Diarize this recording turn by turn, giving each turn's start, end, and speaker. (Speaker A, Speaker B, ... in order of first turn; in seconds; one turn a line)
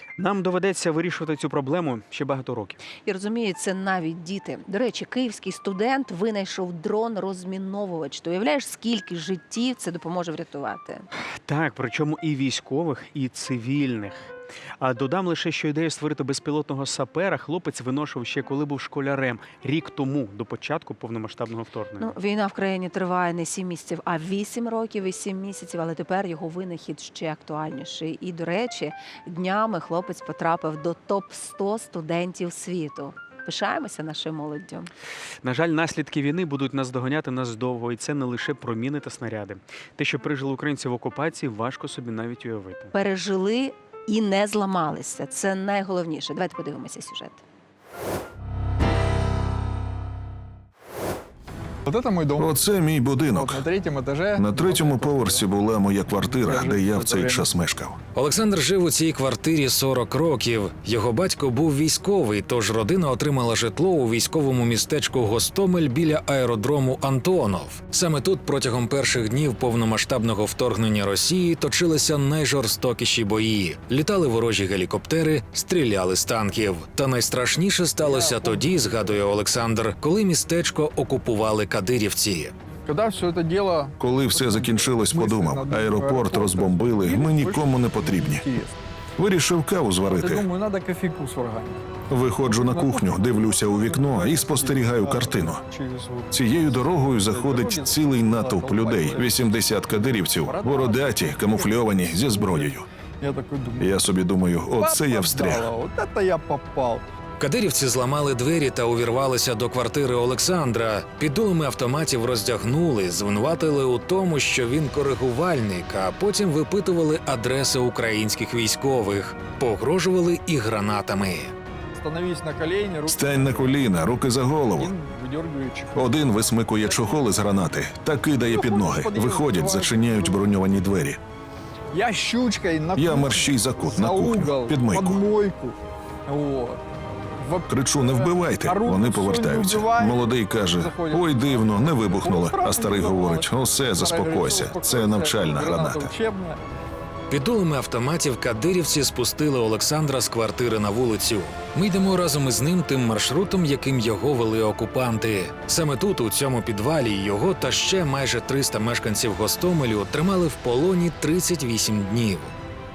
Speaker A: 0.2-2.8
Speaker B: 3.0-11.1
Speaker A: 11.4-14.3
Speaker A: 14.8-22.1
Speaker B: 22.0-34.9
Speaker A: 35.4-42.9
Speaker B: 42.9-47.4
Speaker C: 51.8-52.6
Speaker D: 52.4-53.6
Speaker C: 53.2-55.5
Speaker D: 54.4-58.0
Speaker C: 56.1-57.5
Speaker E: 58.1-82.5
Speaker C: 78.0-79.2
Speaker C: 82.8-88.8
Speaker D: 84.0-88.5
Speaker D: 89.2-90.5
Speaker C: 90.0-91.9
Speaker D: 92.1-95.6
Speaker C: 92.4-96.4
Speaker D: 96.3-102.8
Speaker C: 97.1-99.4
Speaker C: 100.3-103.9
Speaker D: 103.8-105.7
Speaker C: 104.7-107.0
Speaker E: 107.4-121.5
Speaker C: 121.9-123.8
Speaker D: 123.1-124.9
Speaker C: 124.8-127.6
Speaker D: 126.0-131.2
Speaker C: 128.4-130.5
Speaker C: 131.9-136.8
Speaker D: 132.9-135.2
Speaker C: 137.4-146.6
Speaker D: 137.7-146.1
Speaker E: 147.3-162.5